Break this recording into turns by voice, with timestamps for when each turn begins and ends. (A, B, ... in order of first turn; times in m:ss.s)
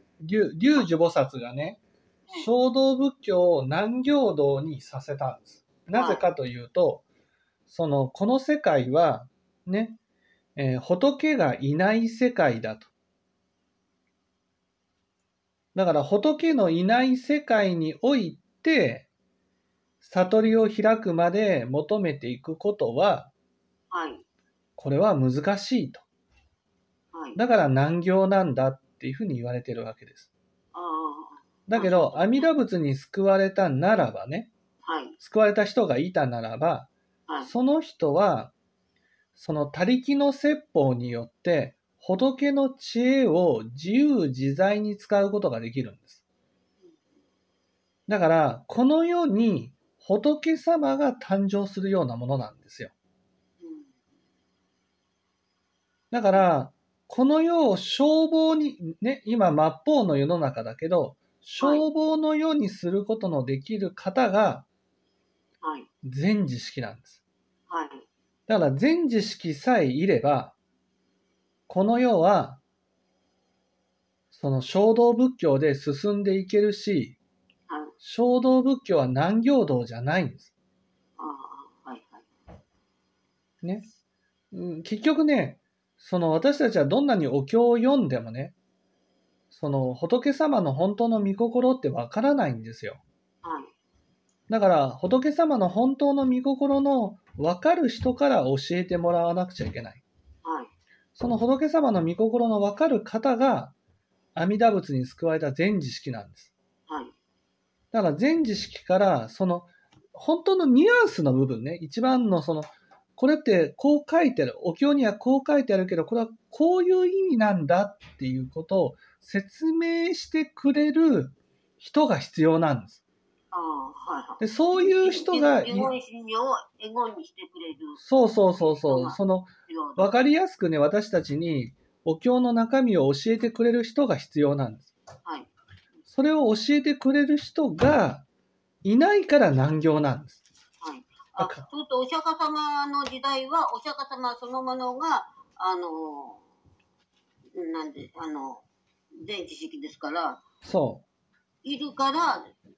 0:00.2-0:01.8 A
0:02.3-0:07.0 A
0:05.9-0:06.3 B
0:07.7-0:10.0 A
0:10.6-0:12.9 A
0:15.8-0:19.1 A
0:20.0-0:23.3 A
0:23.9-0:24.2 B
0:24.8-0:26.0 A
0:27.1-0:27.4 B
0:27.4-0:30.3 A
0:30.7-0:32.5 B
0:31.7-0:34.5 A
0:34.8-0:35.2 B
0:35.2-0:36.9 A
0:37.4-0:38.5 A
0:39.4-0:46.2 A
0:48.1-0:52.9 A
0:53.6-0:53.9 B
0:56.1-1:04.7 A
1:01.6-1:01.8 B
1:05.6-1:05.9 B
1:06.0-1:07.2 A
1:07.7-1:08.1 B
1:08.5-1:10.6 A
1:11.7-1:12.6 A
1:14.3-1:17.2 A
1:17.7-1:17.9 B
1:18.0-1:20.5 A
1:21.2-1:22.3 B
1:24.5-1:28.6 A
1:29.5-1:33.0 A
1:33.4-1:33.7 B
1:34.5-1:40.0 A
1:40.4-1:40.7 B
1:41.2-1:43.7 A
1:44.4-1:46.5 A
1:46.9-1:47.2 B
1:47.9-2:03.0 A
2:03.5-2:10.3 B
2:04.4-2:05.9 A
2:08.0-2:14.9 A
2:15.2-2:15.5 B
2:16.1-2:18.3 A
2:18.8-2:20.4 A
2:20.8-2:26.4 B
2:21.4-2:21.6 A
2:27.6-2:28.7 B
2:29.2-2:30.4 B
2:30.6-2:31.0 A
2:31.6-2:32.5 B